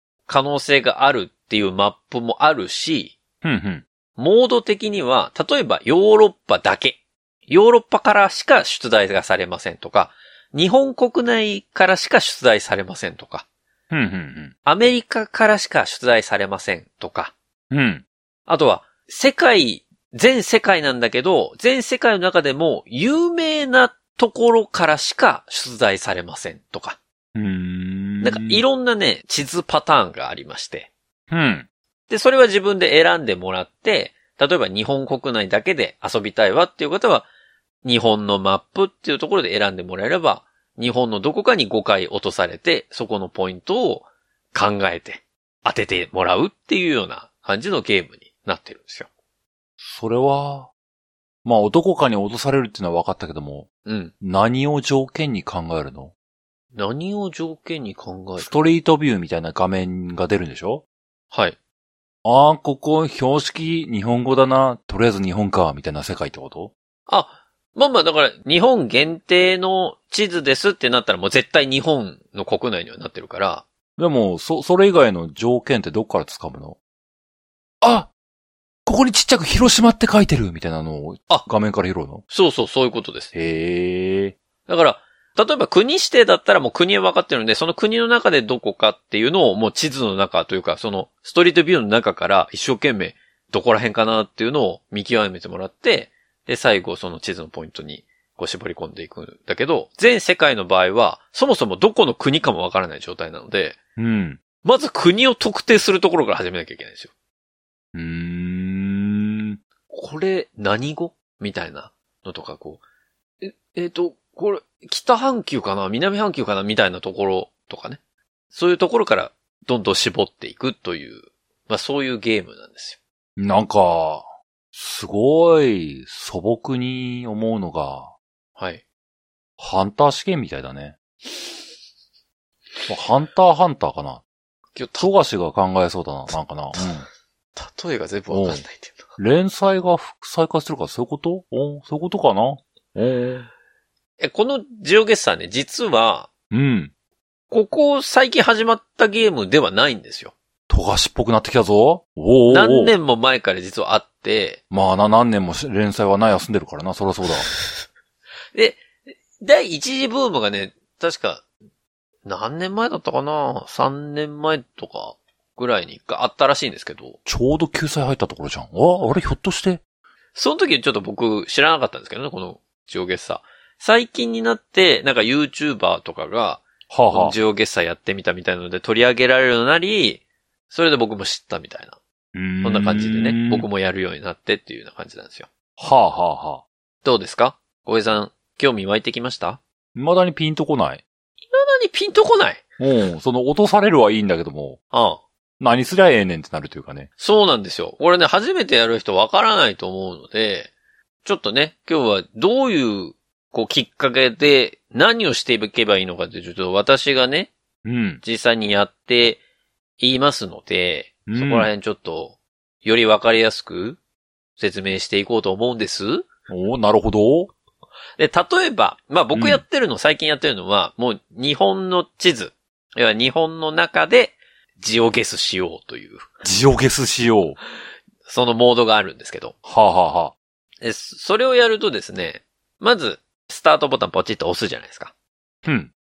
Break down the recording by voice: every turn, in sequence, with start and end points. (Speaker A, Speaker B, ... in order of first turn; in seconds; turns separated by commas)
Speaker A: 0.3-3.2, Speaker B: 3.4-3.9, Speaker A: 4.2-13.5, Speaker B: 13.9-14.5, Speaker A: 14.7-17.3, Speaker B: 17.7-18.0, Speaker A: 18.5-27.0, Speaker B: 27.4-28.6, Speaker A: 28.2-30.9, Speaker B: 31.3-31.7, Speaker A: 32.1-37.3, Speaker A: 37.8-49.1, Speaker B: 49.8-50.7, Speaker B: 51.4-53.7, Speaker A: 53.9-54.1, Speaker B: 54.2-56.1, Speaker A: 56.7-58.5, Speaker B: 58.4-60.8, Speaker B: 62.2-66.7, Speaker A: 67.1-73.7, Speaker B: 74.0-76.8, Speaker B: 77.8-78.1, Speaker B: 78.9-82.2, Speaker A: 82.3-83.3, Speaker B: 83.3-84.4, Speaker A: 84.7-103.8, Speaker B: 104.0-104.4, Speaker A: 104.6-107.1, Speaker B: 107.9-109.6, Speaker A: 109.9-112.8, Speaker A: 113.4-118.0, Speaker A: 118.5-123.0, Speaker B: 123.4-128.1, Speaker A: 128.6-128.8, Speaker B: 129.6-131.0, Speaker B: 132.9-134.2, Speaker A: 134.8-135.1, Speaker B: 135.0-137.1, Speaker A: 137.6-139.1, Speaker B: 138.3-138.6, Speaker B: 139.2-143.5, Speaker A: 144.2-146.3, Speaker B: 146.5-146.9, Speaker A: 147.5-150.3, Speaker B: 150.7-152.9, Speaker A: 152.5-154.6, Speaker B: 154.7-157.5, Speaker A: 158.5-158.8, Speaker A: 159.4-161.4, Speaker A: 162.2-167.2, Speaker B: 167.3-169.8, Speaker A: 170.3-182.0, Speaker B: 176.9-177.4, Speaker B: 182.3-183.7, Speaker A: 182.6-185.5, Speaker B: 185.8-186.6, Speaker A: 187.0-189.6, Speaker B: 189.9-191.0, Speaker A: 191.5-192.6, Speaker B: 192.8-194.8, Speaker A: 194.9-195.2, Speaker B: 195.6-197.1, Speaker A: 197.2-200.7, Speaker A: 201.2-207.5, Speaker B: 207.8-208.2, Speaker A: 208.2-209.4, Speaker A: 210.0-214.0, Speaker B: 211.3-211.7, Speaker A: 214.6-216.3, Speaker B: 216.5-217.5, Speaker A: 218.2-226.3, Speaker B: 219.3-219.6, Speaker B: 226.4-227.6, Speaker A: 228.3-229.6, Speaker B: 229.7-230.3, Speaker A: 230.8-235.1, Speaker B: 235.7-235.9